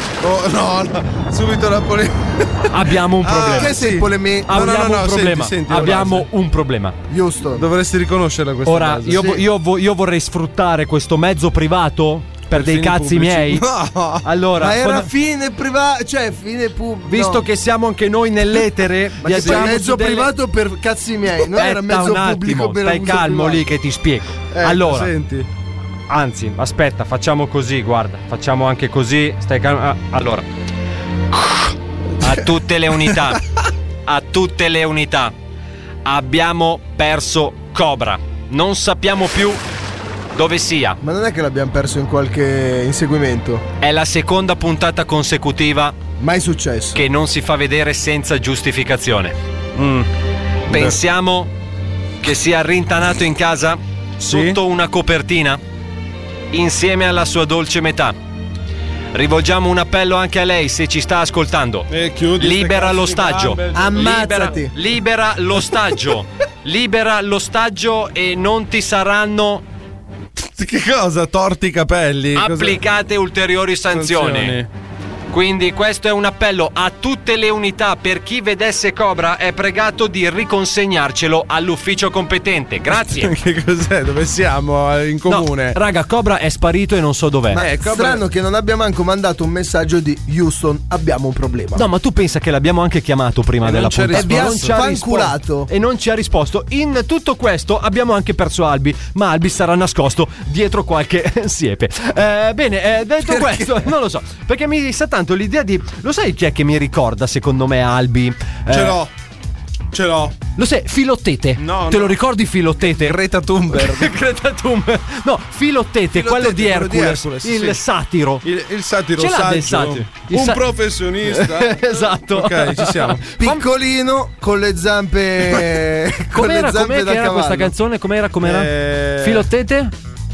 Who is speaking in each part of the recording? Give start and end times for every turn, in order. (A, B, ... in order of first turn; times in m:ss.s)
0:00.2-0:06.3 A
0:02.7-0:03.8 B
0:03.5-0:04.6 C
0:04.5-0:07.0 B
0:07.1-0:07.7 C
0:07.6-0:09.4 A
0:08.6-0:13.7 B
0:09.2-0:09.4 C
0:12.5-0:14.3 A
0:14.2-0:15.1 B
0:14.6-0:17.4 C
0:17.1-0:20.3 B
0:19.2-0:23.6 C
0:19.3-0:19.7 A
0:21.5-0:25.1 B
0:24.5-0:25.5 A
0:26.1-0:30.5 B
0:31.4-0:33.4 B
0:34.1-0:35.3 B
0:36.0-0:39.6 B
0:40.3-0:41.0 B
0:41.0-0:43.6 C
0:43.8-0:46.0 B
0:46.2-0:47.0 C
0:47.0-0:49.4 B
0:49.8-0:50.1 A
0:50.7-0:51.5 B
0:50.7-0:51.0 A
0:52.2-0:55.6 B
0:54.3-0:54.6 A
0:56.5-0:58.2 B
0:59.1-1:09.6 B
1:01.9-1:04.5 A
1:03.7-1:04.7 C
1:10.4-1:12.8 A
1:12.3-1:14.6 B
1:13.9-1:14.7 A
1:15.3-1:23.3 B
1:23.0-1:25.8 A
1:25.3-1:27.6 B
1:27.5-1:28.2 A
1:27.5-1:31.8 C
1:31.8-1:49.0 B
1:33.6-1:34.8 A
1:34.1-1:35.7 C
1:43.3-1:43.8 A
1:48.7-1:49.1 A
1:49.9-1:50.4 A
1:50.6-1:53.2 B
1:51.6-1:52.2 A
1:53.0-1:54.1 A
1:53.7-1:58.4 B
1:56.1-1:57.8 A
1:58.4-2:03.2 A
1:59.2-2:00.7 B
2:01.3-2:03.6 B
2:03.4-2:07.7 C
2:06.3-2:09.9 B
2:08.4-2:09.5 A